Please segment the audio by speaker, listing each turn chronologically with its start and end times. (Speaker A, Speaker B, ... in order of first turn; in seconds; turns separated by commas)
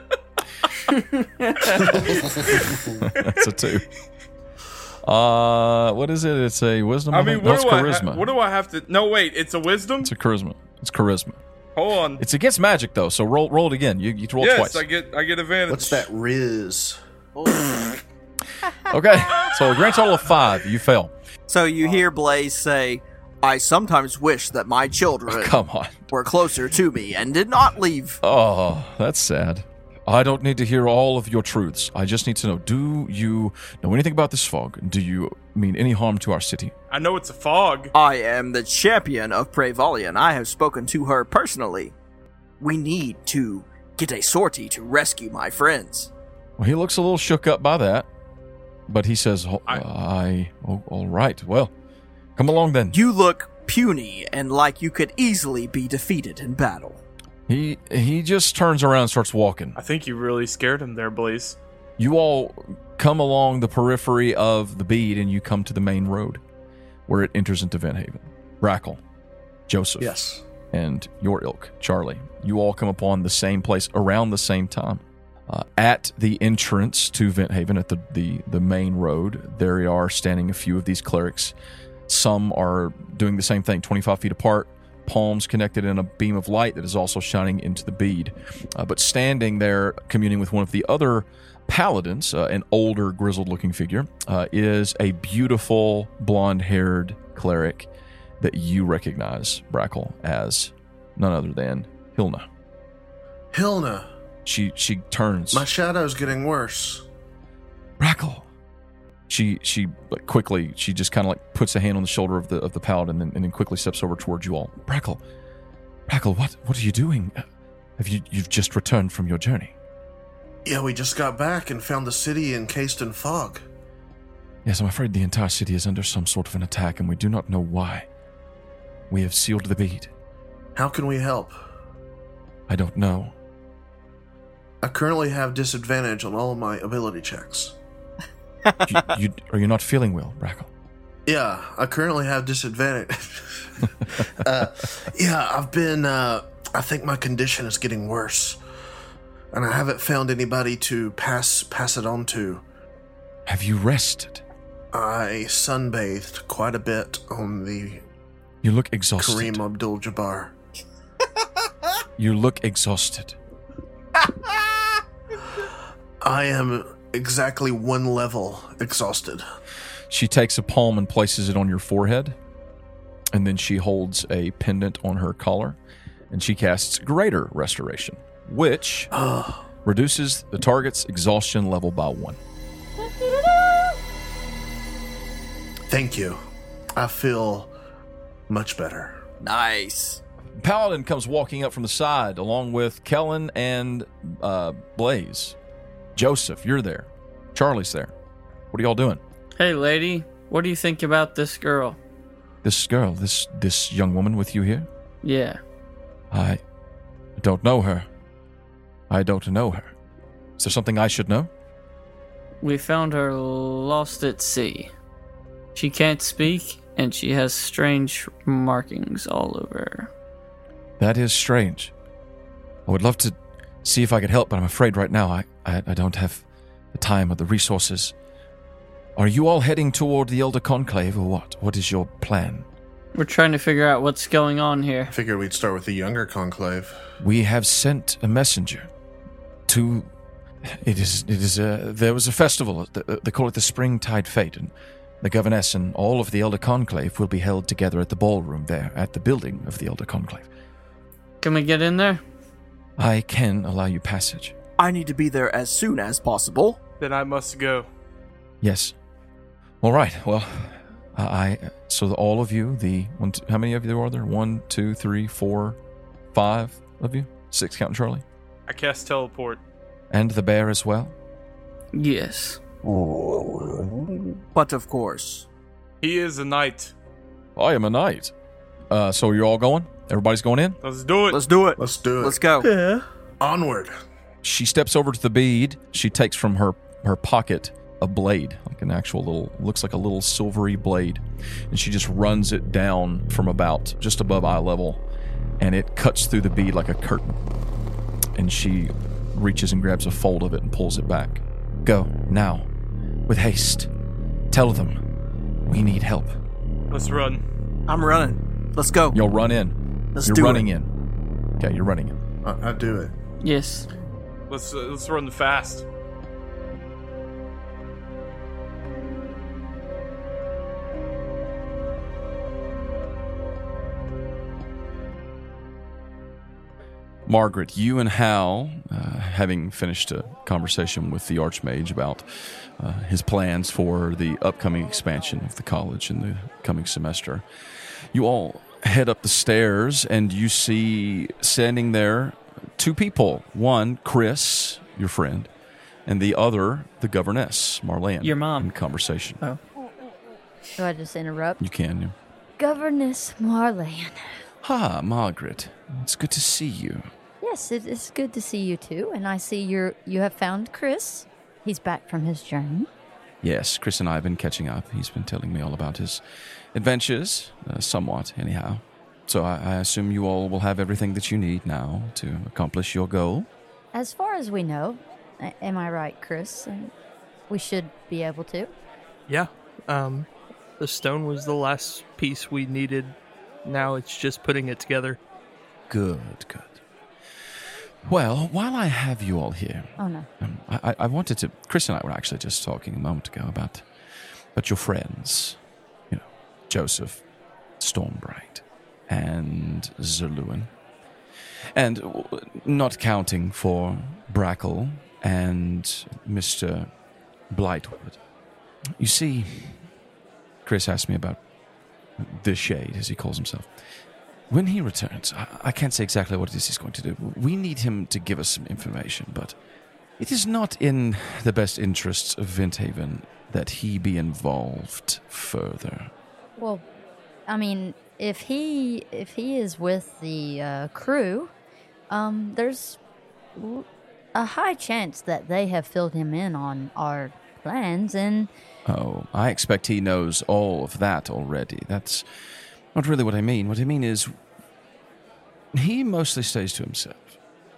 Speaker A: 0.9-2.0, Speaker B: 3.0-3.9, Speaker B: 5.0-8.3, Speaker C: 7.1-10.1, Speaker B: 10.0-11.4, Speaker C: 11.8-12.2, Speaker B: 12.2-14.8, Speaker C: 14.4-16.1, Speaker D: 15.7-17.0, Speaker E: 17.4-18.0, Speaker B: 18.9-21.1, Speaker E: 21.5-25.5, Speaker B: 25.3-26.0, Speaker E: 26.1-28.2, Speaker B: 28.2-36.7, Speaker C: 36.9-37.9, Speaker E: 37.9-41.9, Speaker E: 42.6-46.1, Speaker B: 46.6-48.1, Speaker B: 48.9-51.7, Speaker B: 52.4-53.0, Speaker E: 52.9-57.0, Speaker B: 57.5-59.8, Speaker C: 59.8-61.6, Speaker B: 62.0-66.4, Speaker B: 67.1-69.0, Speaker B: 69.7-81.5, Speaker D: 70.0-70.4, Speaker B: 82.1-97.9, Speaker B: 98.4-102.4, Speaker D: 103.5-104.1, Speaker B: 104.4-105.7, Speaker D: 105.5-107.0, Speaker B: 108.0-108.5, Speaker B: 109.3-115.2, Speaker B: 116.1-117.4, Speaker B: 118.0-119.7, Speaker D: 120.6-123.6, Speaker B: 124.6-128.1, Speaker B: 129.1-130.1, Speaker D: 130.7-131.5, Speaker B: 132.7-133.3, Speaker D: 134.8-137.8, Speaker E: 138.6-139.0, Speaker B: 138.8-140.7, Speaker D: 141.2-148.6, Speaker D: 149.5-152.6, Speaker B: 153.5-154.4, Speaker D: 154.9-158.0, Speaker B: 158.6-159.6, Speaker D: 159.2-160.5, Speaker B: 162.2-163.4, Speaker D: 164.2-164.8, Speaker D: 166.2-169.4, Speaker B: 170.1-172.3, Speaker B: 173.3-175.8, Speaker B: 176.3-179.1, Speaker D: 179.1-179.6, Speaker B: 179.8-182.4, Speaker D: 185.9-186.4, Speaker D: 186.9-187.7, Speaker D: 188.5-189.2, Speaker E: 189.4-190.2, Speaker B: 190.6-195.6, Speaker B: 196.2-198.1, Speaker B: 198.7-199.2, Speaker A: 199.6-202.0, Speaker B: 202.6-204.9, Speaker A: 205.2-205.6, Speaker B: 206.3-206.6, Speaker B: 207.4-208.1, Speaker B: 209.1-209.9, Speaker B: 210.6-211.5, Speaker A: 212.6-214.9, Speaker A: 215.7-220.1, Speaker B: 221.0-221.9, Speaker B: 222.9-228.1, Speaker B: 229.2-232.7, Speaker A: 233.1-235.1, Speaker D: 235.1-237.0, Speaker B: 237.2-238.9, Speaker B: 239.7-240.1, Speaker B: 240.7-250.5, Speaker A: 251.4-252.2, Speaker B: 253.0-254.5, Speaker E: 254.8-256.8, Speaker C: 257.0-257.9, Speaker B: 258.6-258.9, Speaker B: 259.8-265.8, Speaker B: 266.3-268.2, Speaker C: 268.7-269.6, Speaker B: 270.1-271.1, Speaker A: 271.9-272.6, Speaker D: 272.8-274.0, Speaker E: 274.5-275.4, Speaker C: 276.0-276.9, Speaker B: 277.6-278.3, Speaker B: 278.9-280.8, Speaker C: 280.8-281.4, Speaker E: 281.3-282.7, Speaker D: 281.8-282.9, Speaker D: 283.4-283.9, Speaker B: 284.4-295.0, Speaker B: 295.6-297.4, Speaker B: 298.4-302.7, Speaker B: 303.3-303.9, Speaker B: 304.5-305.0, Speaker B: 305.7-306.3, Speaker C: 306.9-307.4, Speaker E: 307.9-309.2, Speaker B: 309.1-310.9, Speaker E: 310.1-310.7, Speaker B: 311.6-312.2, Speaker D: 312.4-313.1, Speaker A: 313.4-313.9, Speaker C: 314.5-315.8, Speaker B: 327.3-332.2, Speaker B: 332.8-337.4, Speaker B: 338.1-345.5, Speaker B: 346.1-349.4, Speaker A: 348.2-348.7, Speaker F: 350.8-351.6, Speaker B: 351.6-352.1, Speaker F: 352.6-354.4, Speaker B: 354.6-357.1, Speaker F: 357.4-362.9, Speaker B: 363.4-366.2, Speaker B: 366.7-373.5, Speaker F: 373.9-376.9, Speaker F: 377.5-378.7, Speaker G: 379.3-385.2, Speaker B: 385.9-386.8, Speaker B: 388.0-393.8, Speaker F: 390.0-390.3, Speaker B: 394.6-395.6, Speaker B: 396.1-397.2, Speaker B: 397.8-400.7, Speaker B: 401.7-406.9, Speaker B: 407.5-408.2, Speaker B: 409.0-409.8, Speaker B: 410.6-411.4, Speaker B: 412.2-413.7, Speaker B: 414.5-419.6, Speaker B: 420.2-426.1, Speaker F: 426.6-426.9, Speaker F: 427.5-431.5, Speaker F: 432.1-433.0, Speaker F: 433.6-438.5, Speaker B: 438.9-442.2, Speaker B: 442.9-444.3, Speaker B: 445.7-447.4